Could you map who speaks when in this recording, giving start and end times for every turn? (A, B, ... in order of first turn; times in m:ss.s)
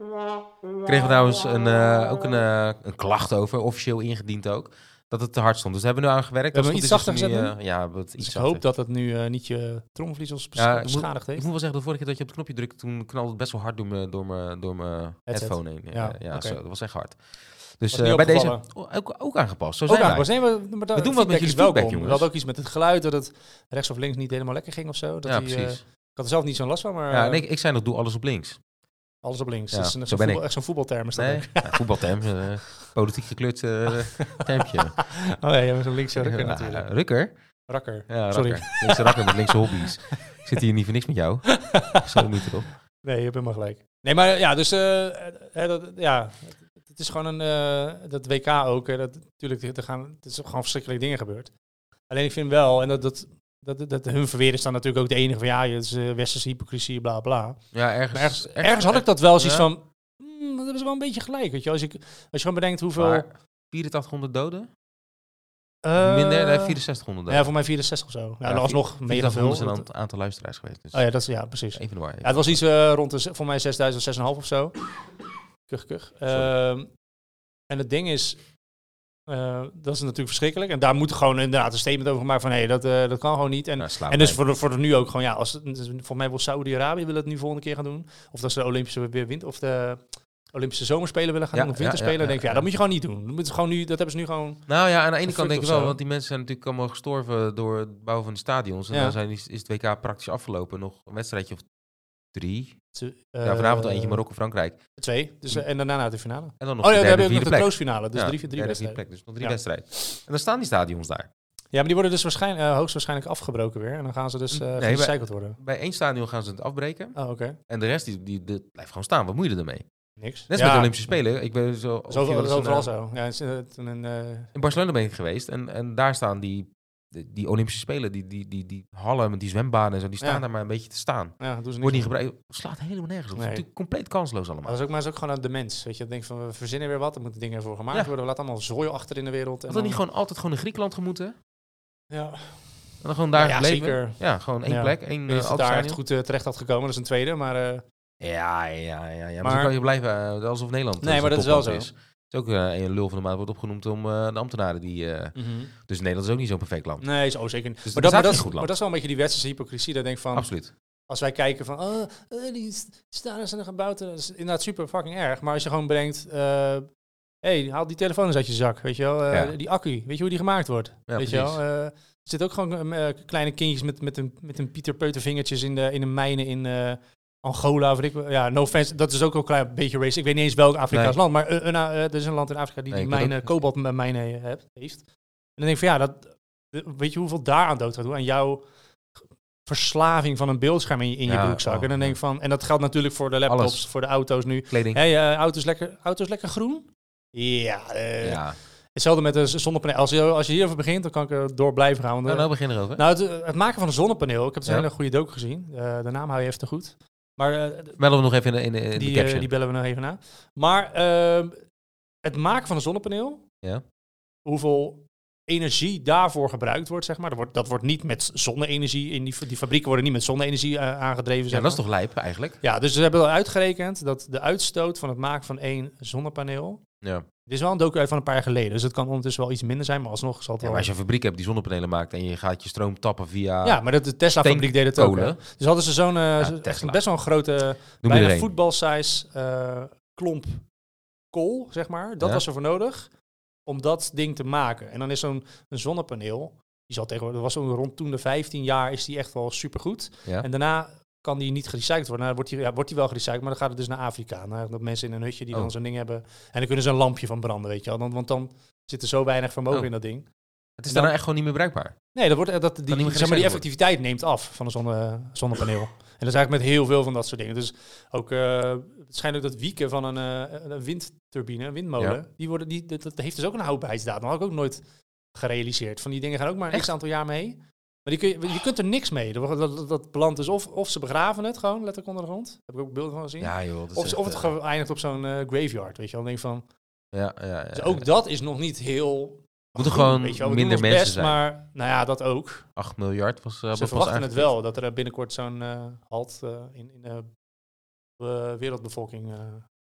0:00.8-0:08.6 A
0:06.5-0:07.6 B
0:08.2-0:11.4 B
0:10.6-0:20.3 A
0:15.3-0:16.6 B
0:17.9-0:18.7 B
0:19.9-0:27.4 B
0:20.9-0:22.3 A
0:25.3-0:25.8 A
0:27.1-0:28.6 A
0:29.2-0:31.9 B
0:29.7-0:30.4 A
0:31.1-0:35.0 A
0:34.2-0:36.9 B
0:36.2-0:37.3 A
0:37.7-0:39.9 B
0:38.1-0:42.7 A
0:41.5-0:42.3 B
0:43.0-0:51.5 B
0:52.1-1:03.2 B
0:57.7-0:59.7 A
1:03.0-1:04.7 A
1:05.8-1:09.8 B
1:06.0-1:07.5 A
1:08.4-1:11.0 A
1:10.9-1:14.8 B
1:11.8-1:12.6 A
1:15.7-1:16.9 B
1:17.7-1:18.4 B
1:19.3-1:34.7 B
1:23.8-1:24.4 A
1:31.5-1:32.6 A
1:34.7-1:41.6 A
1:35.2-1:36.0 B
1:38.9-1:39.2 B
1:42.3-1:42.8 A
1:43.0-1:44.2 B
1:43.4-1:44.8 A
1:45.0-1:49.6 B
1:46.6-1:51.3 A
1:51.7-1:55.6 B
1:54.5-1:57.2 A
1:57.2-1:57.6 B
1:57.7-1:59.9 A
2:00.2-2:00.9 B
2:00.5-2:02.9 A
2:02.1-2:04.5 B
2:04.5-2:14.8 A
2:11.4-2:12.1 B
2:13.4-2:13.6 B
2:14.6-2:20.0 B
2:19.7-2:21.4 A
2:22.1-2:22.7 B
2:23.0-2:26.0 A
2:23.4-2:27.8 B
2:28.2-2:37.0 A
2:29.4-2:29.7 B
2:31.0-2:31.9 B
2:35.4-2:35.7 B
2:37.0-2:40.5 B
2:37.8-2:38.7 A
2:40.3-2:40.7 A
2:41.1-2:46.9 B
2:47.4-3:05.0 B
2:51.1-2:51.6 A
3:02.9-3:03.5 A
3:05.6-3:08.6 B
3:09.7-3:18.4 B
3:11.3-3:12.2 A
3:13.5-3:13.8 A
3:14.7-3:15.0 A
3:18.2-3:18.6 A
3:19.0-3:28.0 B
3:22.3-3:23.0 A
3:28.0-3:29.5 A
3:29.0-3:31.6 B
3:32.2-3:33.4 B
3:34.4-3:41.8 B
3:41.5-3:42.6 A
3:42.6-3:46.8 B
3:47.5-3:50.9 B
3:50.6-3:53.8 A
3:53.6-4:00.6 B
3:54.3-3:55.4 A
3:56.4-3:57.0 A
3:58.0-3:58.5 A
4:01.3-4:03.1 B
4:03.7-4:20.3 B
4:20.8-4:22.0 A
4:22.2-4:34.8 B
4:22.9-4:23.6 A
4:35.3-4:46.7 B
4:43.4-4:44.5 A
4:47.1-4:48.1 A
4:47.7-4:52.7 B
4:49.8-4:51.4 A
4:52.8-4:54.5 A
4:53.7-4:57.3 B
4:58.2-4:59.7 B